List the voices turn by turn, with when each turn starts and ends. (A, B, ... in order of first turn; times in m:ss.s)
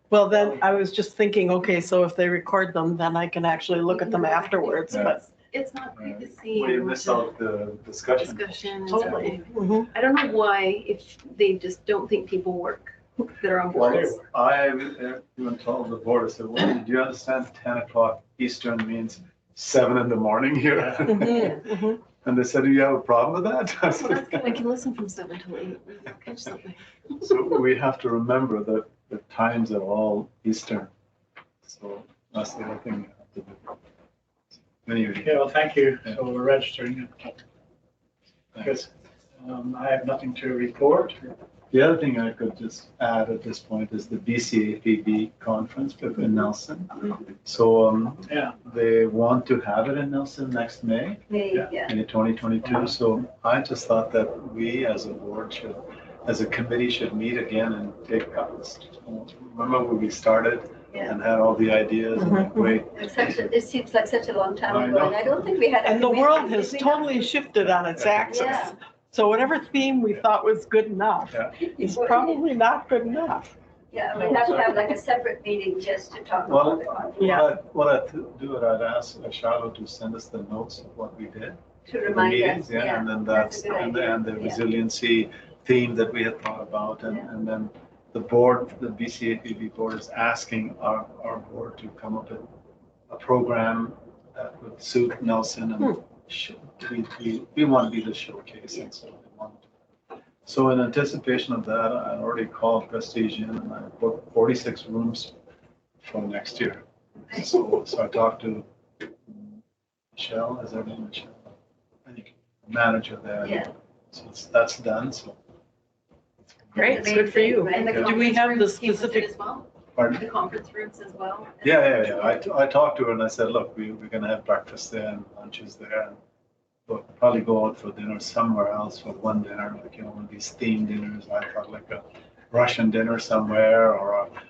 0:00.1-0:05.2 A
0:03.9-0:07.3 B
0:04.9-0:05.1 C
0:06.0-0:09.3 C
0:08.1-0:14.2 B
0:08.9-0:09.9 A
0:13.7-0:24.6 C
0:13.8-0:14.3 D
0:20.9-0:21.2 D
0:21.5-0:22.0 A
0:23.9-0:26.8 B
0:27.2-0:30.9 C
0:31.6-0:33.8 C
0:34.7-0:35.4 C
0:35.2-0:37.4 D
0:38.5-0:38.8 C
0:38.6-0:41.3 D
0:41.7-1:03.3 C
0:48.3-0:48.6 D
0:51.3-0:51.9 E
0:52.6-0:52.9 D
1:02.2-1:02.7 A
1:02.9-1:07.3 E
1:04.7-1:05.4 C
1:05.8-1:13.5 A
1:07.6-1:08.7 C
1:08.3-1:08.7 E
1:11.6-1:12.4 E
1:13.9-1:17.5 E
1:16.4-1:32.4 C
1:17.2-1:17.5 A
1:21.8-1:24.6 E
1:33.1-1:39.7 C
1:40.4-1:45.3 C
1:46.0-1:48.7 C
1:50.1-1:51.5 C
1:52.0-1:55.4 C
1:53.4-1:53.7 E
1:56.6-1:57.0 C
1:56.7-1:59.3 A
1:56.8-1:58.3 E
1:57.5-2:02.0 B
1:57.9-1:58.1 C
2:00.0-2:00.2 C
2:01.6-2:06.2 C
2:06.9-2:14.3 C